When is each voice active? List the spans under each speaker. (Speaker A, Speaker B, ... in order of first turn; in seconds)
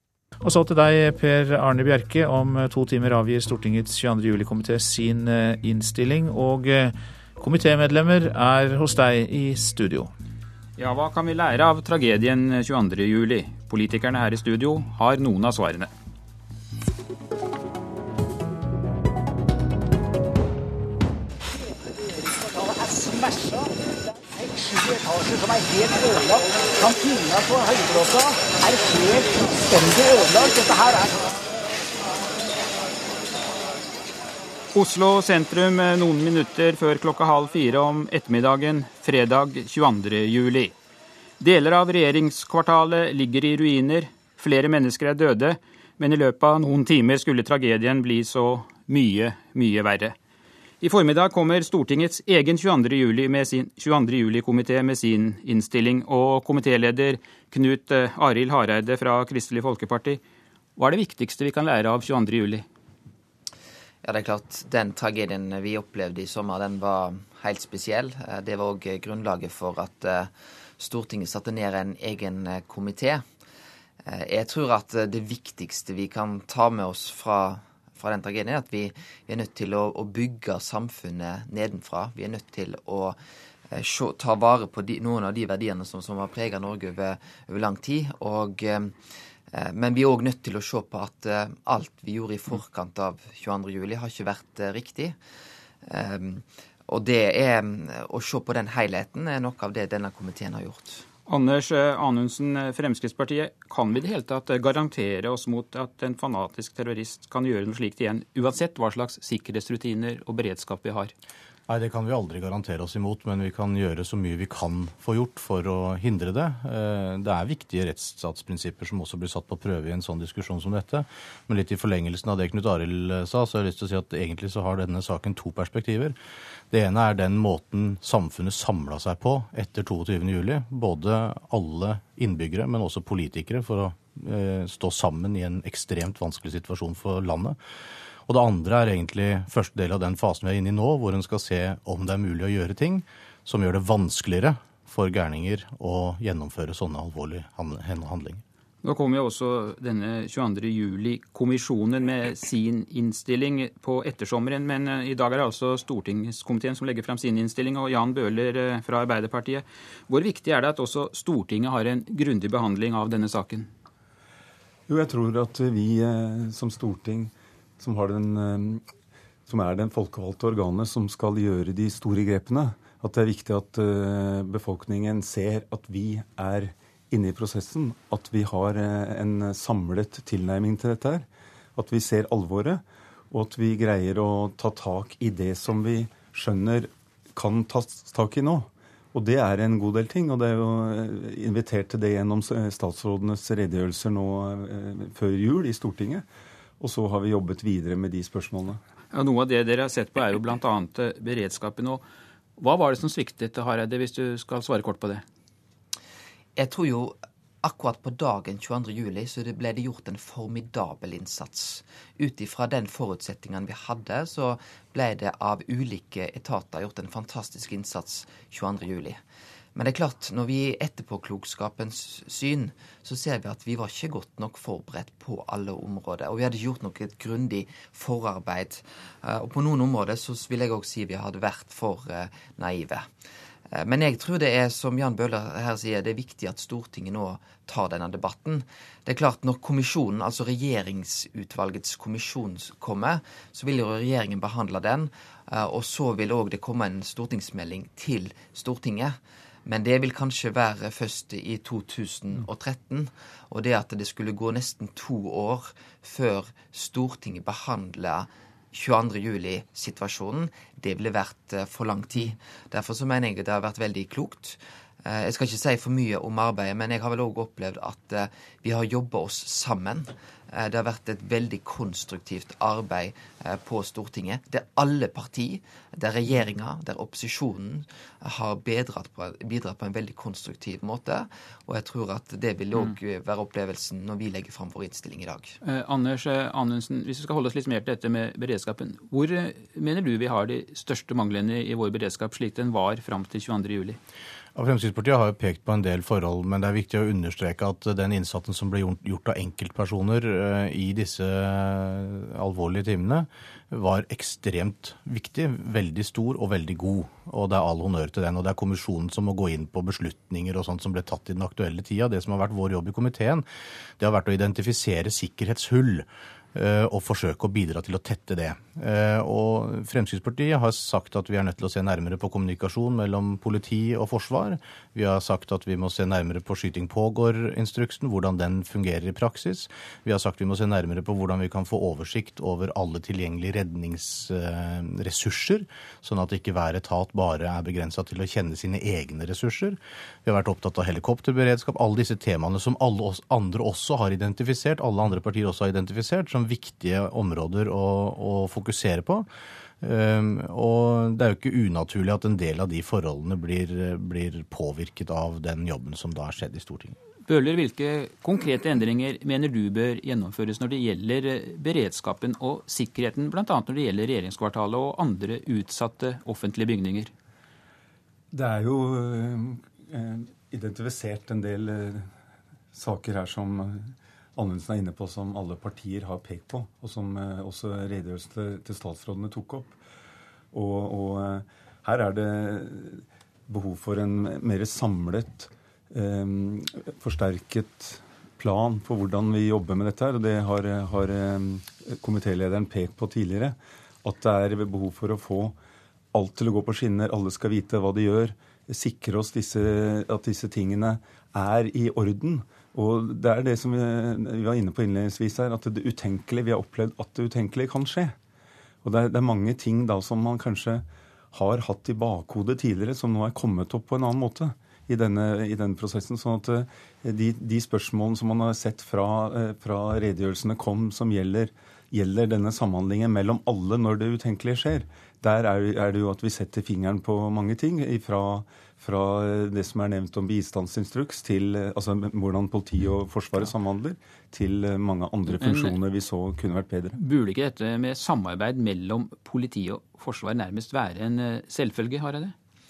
Speaker A: 0.4-10.1
Speaker B: 10.8-15.9, 34.7-40.7, 41.4-50.1, 50.8-60.2, 60.8-62.7, 101.2-111.1, 148.8-163.7, 199.1-202.0, 202.6-205.2, 285.6-294.0, 357.2-367.1, 435.3-435.8, 436.9-442.3
Speaker C: 24.7-30.9
Speaker D: 64.0-73.2, 74.0-83.2, 83.7-88.9, 89.5-95.2, 95.8-101.0, 206.6-219.2, 219.7-233.1, 233.7-285.6
Speaker E: 111.7-126.2, 126.7-137.6, 138.3-148.4, 294.5-313.4, 314.0-349.2, 349.8-356.9
Speaker F: 164.9-168.8, 169.5-196.2, 196.8-198.8, 368.3-372.1, 372.7-379.8, 380.5-395.5, 396.1-408.1, 408.8-437.0